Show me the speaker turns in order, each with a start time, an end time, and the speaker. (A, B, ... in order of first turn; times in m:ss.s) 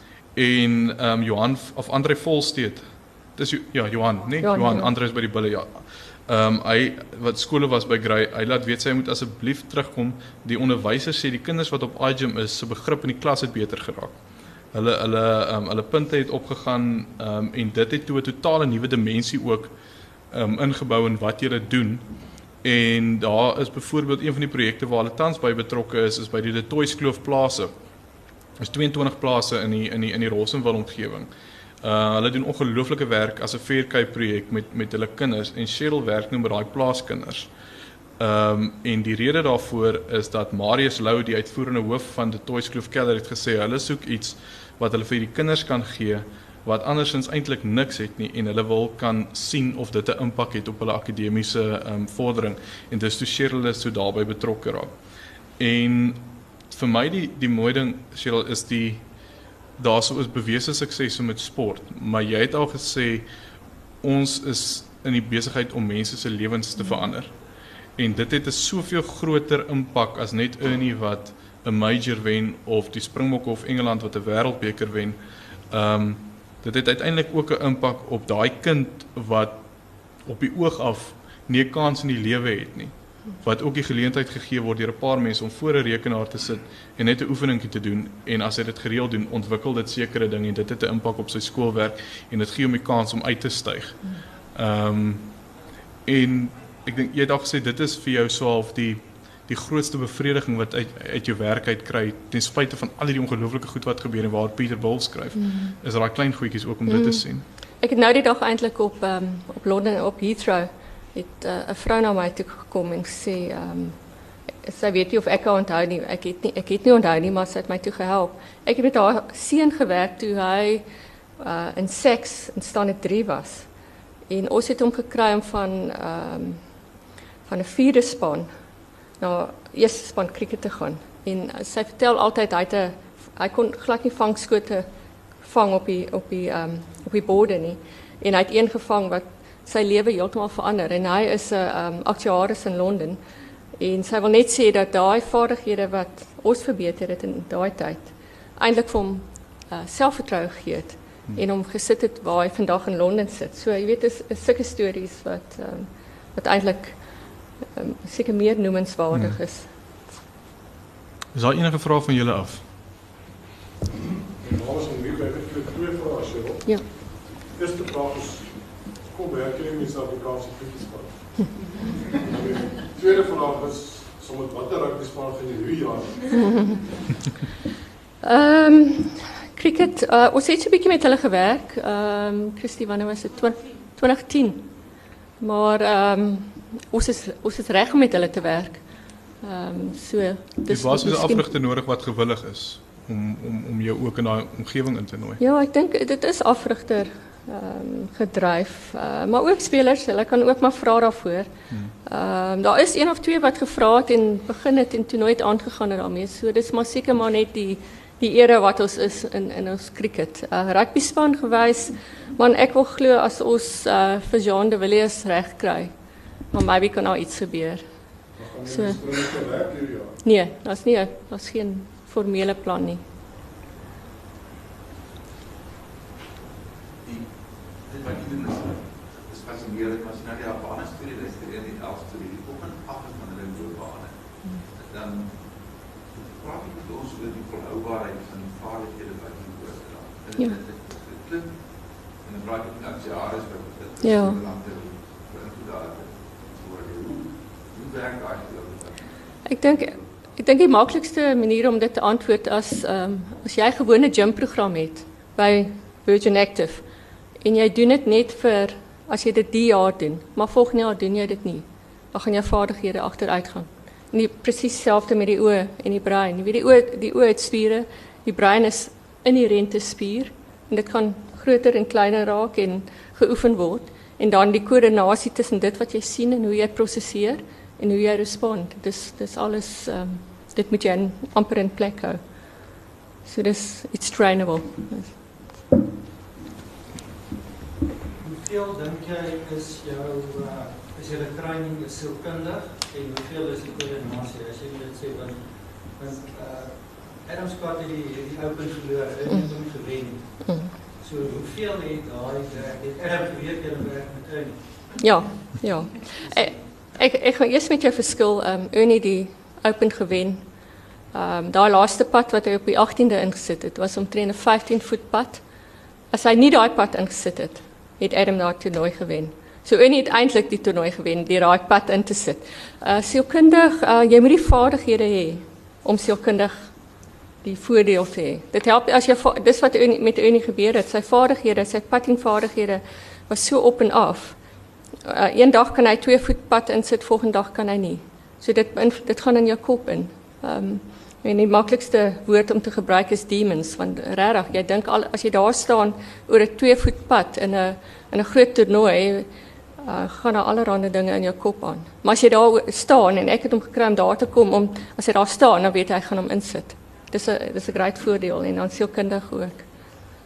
0:00.3-0:14.2 A
0:04.4-0:04.9 B
0:14.7-0:19.7 A
0:20.3-0:22.1 A
0:22.6-0:27.7 A
0:28.6-0:31.3 A
0:31.8-0:37.5 A
0:38.2-0:54.9 A
0:55.6-0:59.0 A
0:59.8-1:03.2 A
1:04.0-1:07.3 A
1:08.0-1:15.2 A
1:15.7-1:19.6 A
1:20.2-1:34.0 A
1:34.5-1:35.3 A
1:36.0-1:47.4 A
1:45.4-1:45.7 B
1:46.9-1:47.2 B
1:47.8-1:54.0 B
1:54.6-2:00.8 B
2:01.4-2:03.7 B
2:04.3-2:06.6 B
2:07.4-2:08.5 B
2:09.2-2:14.8 B
2:15.4-2:23.2 B
2:23.8-2:37.0 B
2:37.7-2:39.7 B
2:39.1-2:39.4 A
2:41.3-2:42.6 A
2:44.4-2:56.5 C
2:56.4-2:56.8 B
2:58.2-3:04.7 B
3:05.4-3:08.8 B
3:09.4-3:11.5 B
3:10.7-3:15.4 A
3:15.4-3:21.5 B
3:22.0-3:35.9 B
3:36.5-3:37.8 B
3:38.4-3:40.2 C
3:38.6-3:39.0 B
3:40.2-3:43.0 B
3:47.0-4:10.0 D
4:04.0-4:04.4 B
4:09.4-4:16.8 B
4:17.4-4:42.2 B
4:43.2-4:45.2 B
4:48.2-5:05.1 E
5:00.4-5:00.7 B
5:05.0-5:10.4 B
5:06.2-5:06.6 E
5:11.1-5:15.4 B
5:16.1-5:26.7 B
5:27.4-5:34.4 B
5:35.0-5:49.3 B
5:49.8-5:59.6 B